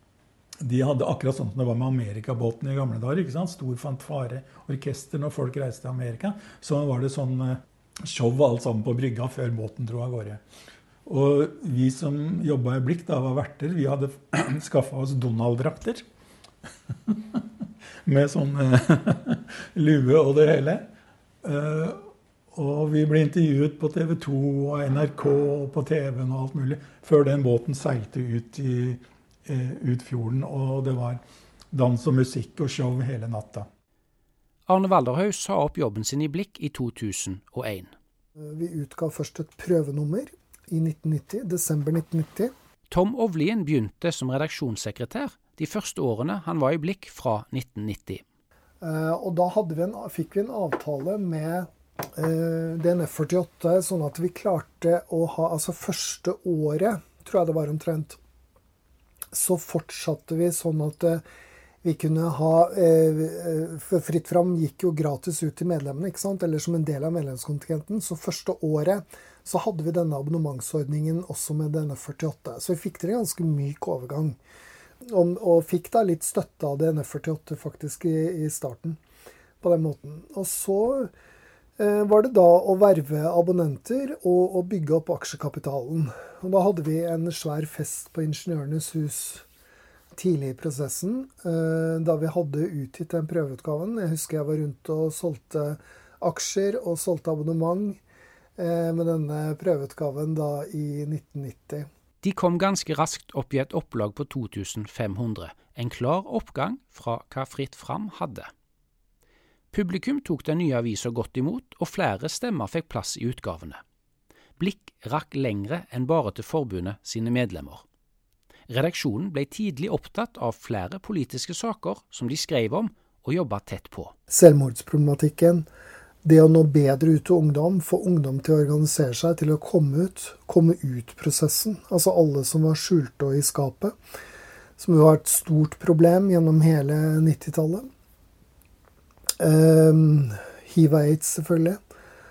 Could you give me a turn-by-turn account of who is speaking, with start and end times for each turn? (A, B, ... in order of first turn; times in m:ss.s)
0:00.6-0:10.4 A
0:11.0-0:16.0 A
0:17.1-0:17.5 A
0:18.0-0:20.9 A
0:21.4-0:33.7 A
0:34.7-0:37.9 B
0:38.4-0:42.5 C
0:42.9-0:48.2 B
0:48.8-0:58.2 C
0:59.3-1:01.2 C
1:01.8-1:14.4 C
1:15.0-1:19.0 C
1:19.6-1:21.1 C
1:21.8-1:29.4 C
1:30.1-1:38.0 C
1:38.6-1:41.9 C
1:42.2-1:48.5 B
1:49.7-1:53.8 B
1:54.6-1:57.8 B
1:58.7-2:04.2 B
2:04.3-2:05.7 C
2:06.2-2:13.9 C
2:14.8-2:17.9 C
2:19.4-2:21.8 C